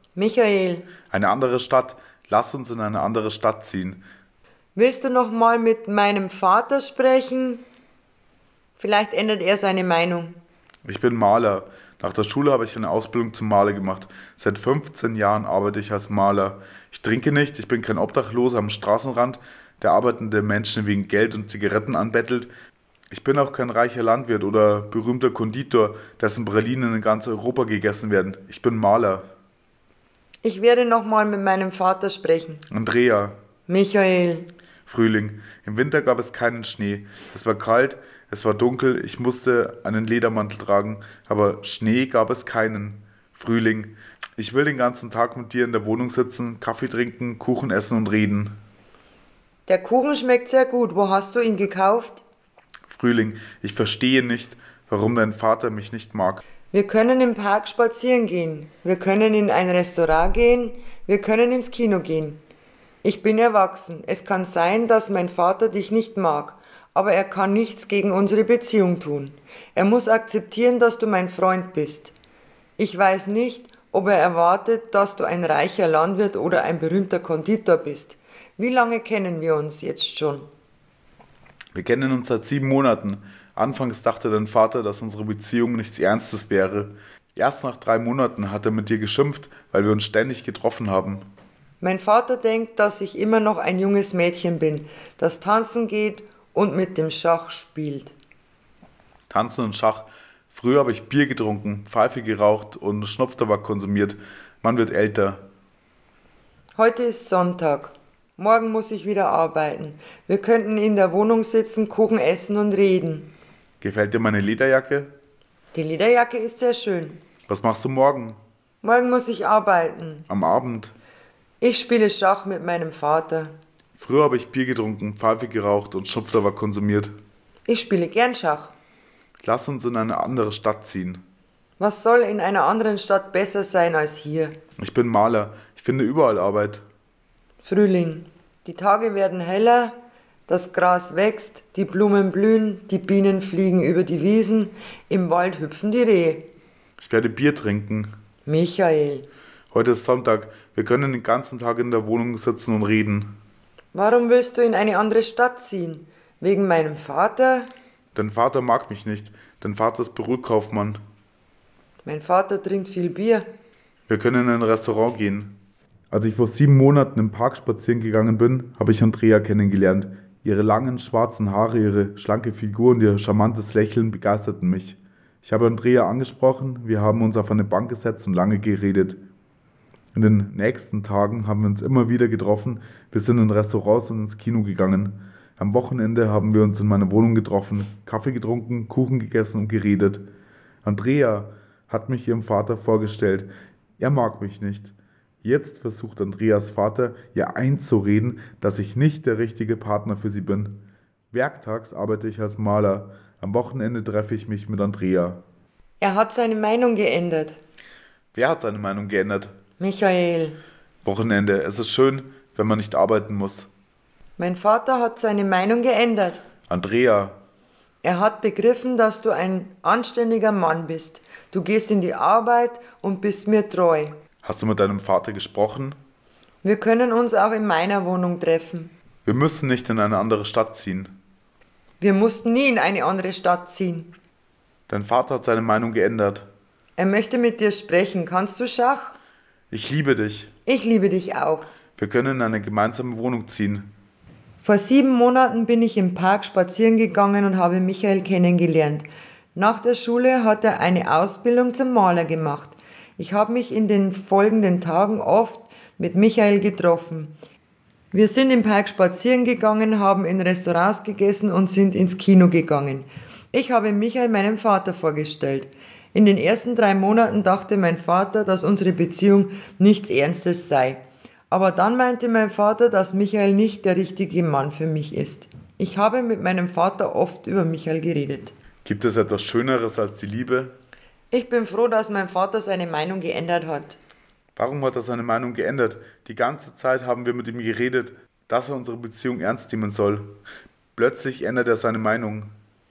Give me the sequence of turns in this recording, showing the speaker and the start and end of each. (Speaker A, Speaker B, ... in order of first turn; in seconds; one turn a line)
Speaker A: 0.1-0.9
Speaker B: 1.1-4.0
Speaker A: 4.8-7.6
Speaker A: 8.8-10.4
Speaker B: 10.9-22.5
Speaker B: 23.1-29.3
Speaker A: 30.4-32.6
Speaker B: 32.7-33.4
Speaker A: 33.7-34.5
Speaker B: 34.9-48.5
Speaker A: 49.7-52.2
Speaker B: 52.9-56.4
Speaker A: 56.7-62.4
Speaker A: 63.0-72.1
Speaker A: 72.8-80.5
Speaker B: 81.8-91.2
Speaker A: 91.8-98.1
Speaker B: 99.3-105.4
Speaker A: 106.8-113.3
Speaker B: 113.8-115.1
Speaker A: 115.7-117.2
Speaker B: 117.5-118.4
Speaker A: 118.8-120.3
Speaker B: 120.3-120.9
Speaker A: 121.6-123.5
Speaker B: 124.0-127.1
Speaker A: 127.7-128.7
Speaker B: 129.4-131.2
Speaker A: 131.8-134.6
Speaker B: 134.8-136.8
Speaker A: 137.6-139.9
Speaker A: 140.5-146.5
Speaker B: 147.0-148.1
Speaker A: 148.5-149.3
Speaker B: 149.7-153.3
Speaker A: 153.9-157.7
Speaker B: 158.2-161.0
Speaker A: 162.1-163.5
Speaker B: 164.1-165.6
Speaker B: 166.1-179.2
Speaker B: 180.2-190.2
Speaker B: 190.8-193.5
Speaker B: 194.0-200.8
Speaker B: 201.3-205.4
Speaker A: 206.0-207.6
Speaker B: 208.3-209.5
Speaker A: 209.8-210.6
Speaker B: 211.1-213.7
Speaker A: 214.4-216.4
Speaker B: 216.7-217.4
Speaker A: 218.0-224.2
Speaker B: 224.4-226.0
Speaker A: 226.6-228.9
Speaker B: 229.2-231.1
Speaker A: 232.0-234.1
Speaker B: 234.9-236.5
Speaker A: 237.0-239.2
Speaker B: 239.7-240.5
Speaker A: 240.7-241.7
Speaker B: 242.0-243.9
Speaker A: 244.6-257.4
Speaker A: 258.1-278.5
Speaker B: 278.9-280.7
Speaker A: 281.3-284.0
Speaker B: 284.6-290.3
Speaker B: 291.0-292.5